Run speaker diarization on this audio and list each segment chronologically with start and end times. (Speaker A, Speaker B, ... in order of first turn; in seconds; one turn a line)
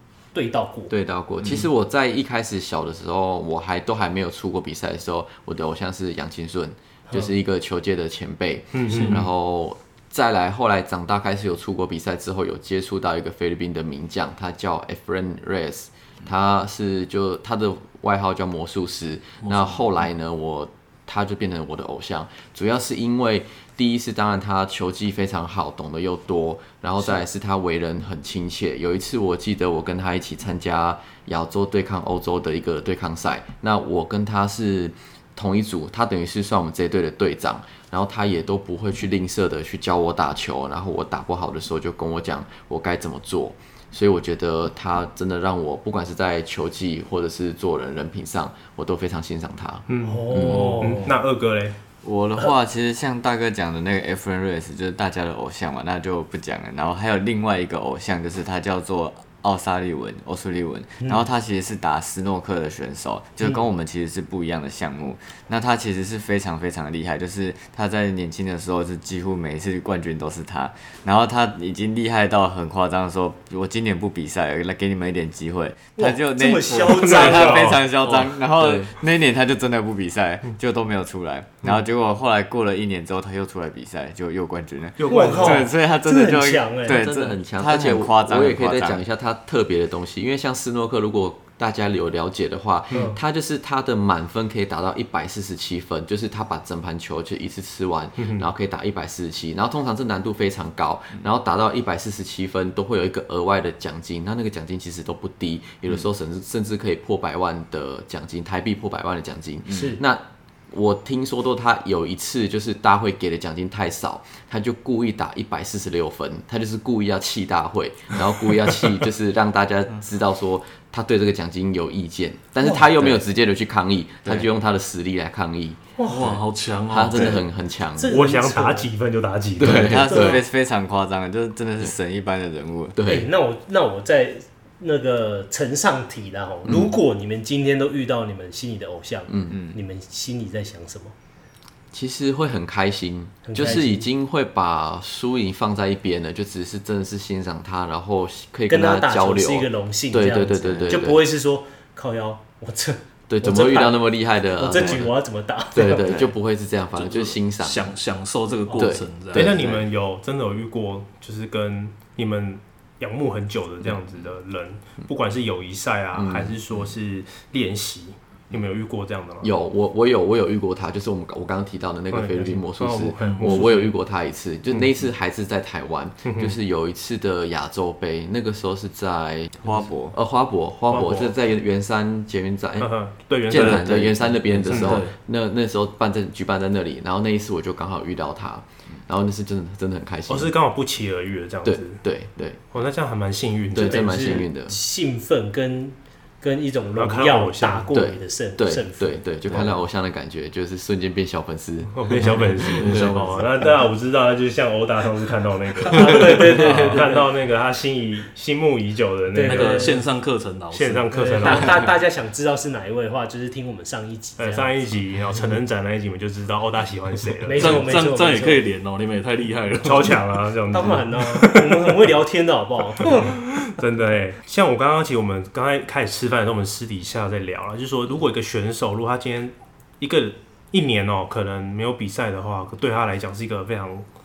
Speaker A: 0.3-0.9
Speaker B: 0.9-50.7
Speaker C: 8.7-9.2
Speaker D: 19.4-19.9
Speaker C: 49.9-51.8
Speaker A: 50.0-51.2
Speaker E: 52.0-89.0
Speaker A: 76.0-77.8
Speaker C: 76.8-77.8
Speaker B: 78.1-78.9
Speaker C: 85.0-85.7
Speaker A: 85.1-87.0
Speaker B: 86.9-125.8
Speaker A: 92.9-93.2
Speaker C: 98.2-98.5
Speaker A: 109.7-110.0
Speaker A: 126.0-126.4
Speaker D: 126.1-127.4
Speaker B: 126.9-128.1
Speaker A: 127.1-127.4
Speaker A: 128.0-128.9
Speaker C: 128.0-130.1
Speaker B: 129.6-130.4
Speaker E: 129.7-133.0
Speaker A: 130.1-130.4
Speaker B: 133.0-133.3
Speaker A: 133.1-141.1
Speaker B: 136.7-137.0
Speaker B: 139.3-139.5
Speaker E: 139.5-139.8
Speaker B: 141.9-151.2
Speaker A: 143.4-144.1
Speaker A: 148.7-154.1
Speaker E: 150.6-151.0
Speaker B: 153.3-155.1
Speaker A: 154.6-156.1
Speaker E: 154.8-155.0
Speaker B: 155.7-157.9
Speaker E: 156.1-156.3
Speaker D: 157.0-159.6
Speaker B: 158.8-159.6
Speaker C: 159.3-169.5
Speaker E: 159.4-159.8
Speaker B: 166.2-166.6
Speaker B: 169.4-182.9
Speaker C: 172.1-173.9
Speaker D: 173.2-173.6
Speaker C: 176.2-176.6
Speaker E: 179.6-180.2
Speaker C: 180.9-181.3
Speaker C: 182.8-185.0
Speaker B: 183.5-190.5
Speaker D: 183.5-183.9
Speaker D: 184.7-185.1
Speaker C: 190.3-192.0
Speaker B: 191.6-192.6
Speaker C: 192.7-194.4
Speaker B: 193.7-194.8
Speaker A: 193.8-199.7
Speaker C: 197.0-197.9
Speaker B: 197.9-203.2
Speaker C: 201.9-210.0
Speaker D: 202.7-203.4
Speaker A: 205.9-207.2
Speaker A: 209.3-210.0
Speaker D: 209.4-211.8
Speaker C: 210.7-211.8
Speaker A: 211.1-214.9
Speaker C: 214.4-217.9
Speaker A: 217.4-218.7
Speaker D: 217.6-220.2
Speaker C: 219.8-222.1
Speaker A: 220.7-223.4
Speaker C: 223.0-234.1